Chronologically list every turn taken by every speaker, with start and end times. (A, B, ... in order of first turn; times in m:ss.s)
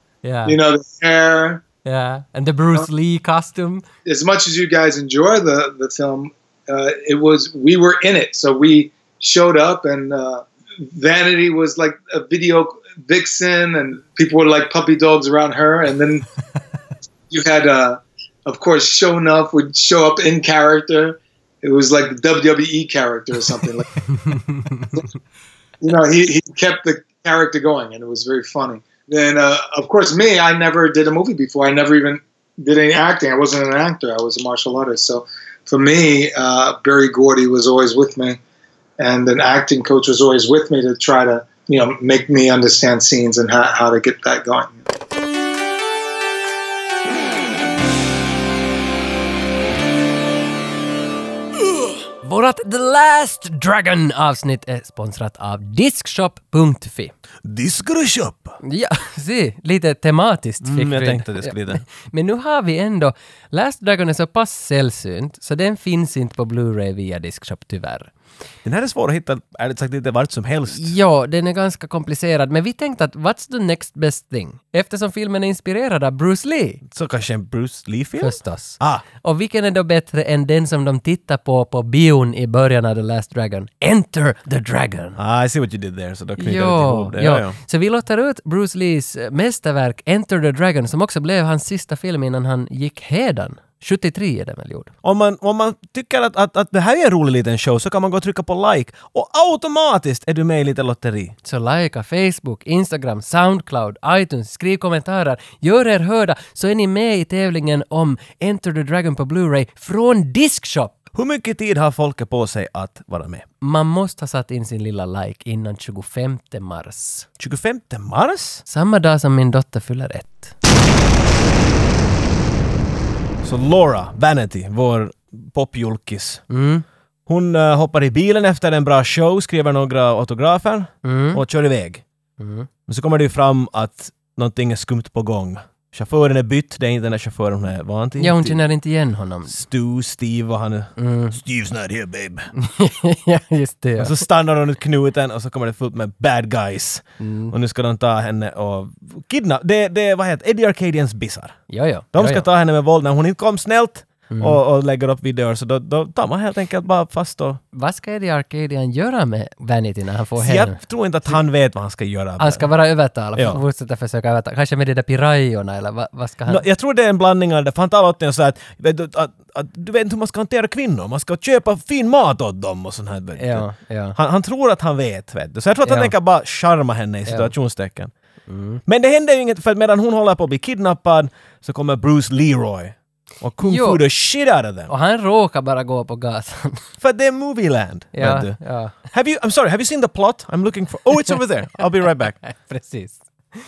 0:00.2-0:00.5 A
0:00.4-0:01.6 B
0:01.8-0:03.8 A
0:04.0-0:16.3 B
0:17.3-0:24.0 B
0:24.2-0:24.9 A
0:25.8-0:38.4 B
0:39.0-0:44.8 B
0:51.7-0:57.1 A
0:57.4-0:58.6 C
0:58.6-1:08.1 A
1:00.6-1:01.8 C
1:08.6-1:10.9 C
1:10.7-1:16.8 A
1:16.9-1:19.0 C
1:18.2-1:25.2 A
1:25.2-1:27.6 C
1:26.4-1:34.9 A
1:35.0-1:41.3 C
1:41.4-1:50.9 A
1:51.1-1:53.4 C
1:53.6-1:57.3 A
1:57.4-1:58.6 C
1:58.6-2:00.5 A
2:03.4-2:06.4 C
2:06.5-2:06.8 A
2:07.3-2:12.0 C
2:11.0-2:11.4 A
2:12.4-2:12.7 A
2:12.9-2:18.6 C
2:18.2-2:19.6 A
2:19.5-2:22.5 C
2:21.0-2:21.4 A
2:22.6-2:24.2 A
2:24.0-2:31.6 C
2:27.2-2:27.5 A
2:31.7-2:32.4 A
2:32.1-2:37.6 C
2:34.3-2:34.6 A
2:37.7-2:40.8 A
2:40.4-2:42.7 C
2:42.4-2:46.6 A
2:43.3-2:43.6 C
2:46.5-2:58.1 C
2:53.4-2:54.2 A
2:55.8-2:56.1 A
2:57.3-2:57.5 A
2:58.5-2:58.8 A
2:58.8-3:04.9 C
3:03.6-3:04.0 A
3:04.9-3:06.8 A
3:07.0-3:12.4 C
3:08.1-3:09.0 A
3:12.4-3:13.2 A